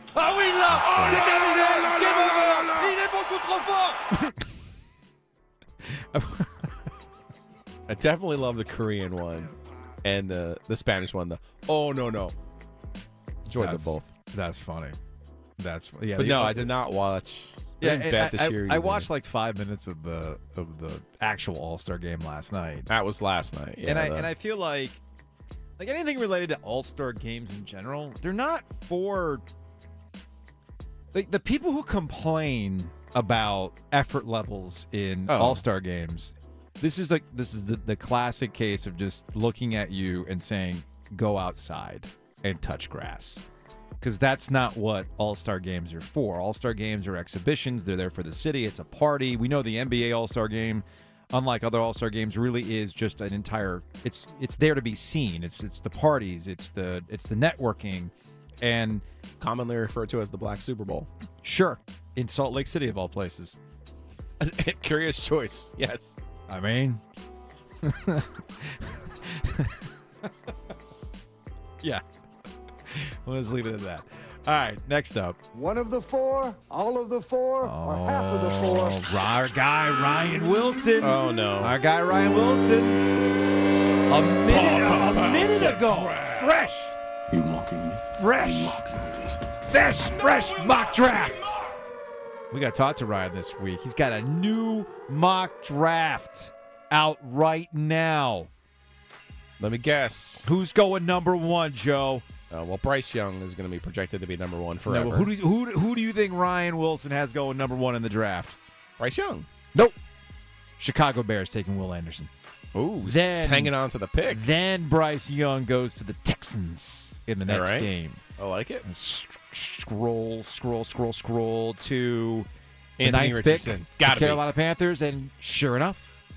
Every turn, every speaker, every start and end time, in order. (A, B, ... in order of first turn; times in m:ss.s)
0:00.1-0:04.0 A
0:00.7-0:01.3 B
0:05.9-0:06.7 B
0:07.9-0:09.5 C
0:10.0-0:12.3 C
0:13.4-0:14.1 C
0:13.6-0:15.0 B
0:15.6-0:16.7 B
0:16.2-0:19.1 C
0:17.8-0:22.9 B
0:22.9-0:24.3 C
0:23.8-0:25.0 B
0:25.8-0:29.4 B
0:31.1-0:43.4 B
0:35.3-0:35.6 C
0:44.0-0:59.0 B
0:59.4-1:01.1 C
1:01.4-1:03.6 B
1:04.4-1:06.2 C
1:06.5-1:07.0 B
1:07.8-1:09.8 B
1:12.9-1:15.4 B
1:15.5-1:19.0 D
1:17.6-1:23.0 B
1:21.0-1:21.7 C
1:24.1-1:27.0 B
1:24.5-1:26.5 E
1:27.3-1:29.4 E
1:28.1-1:28.8 B
1:29.6-1:31.6 B
1:32.5-1:38.5 B
1:39.6-1:40.5 C
1:40.4-1:42.2 B
1:42.5-1:45.3 C
1:44.9-1:48.6 B
1:49.0-1:49.4 C
1:50.8-1:52.3 B
1:52.7-1:54.4 C
1:53.0-1:53.7 B
1:54.3-1:58.2 B
1:57.4-1:58.9 C
1:58.8-2:02.5 B
2:03.0-2:04.4 C
2:03.0-2:06.0 B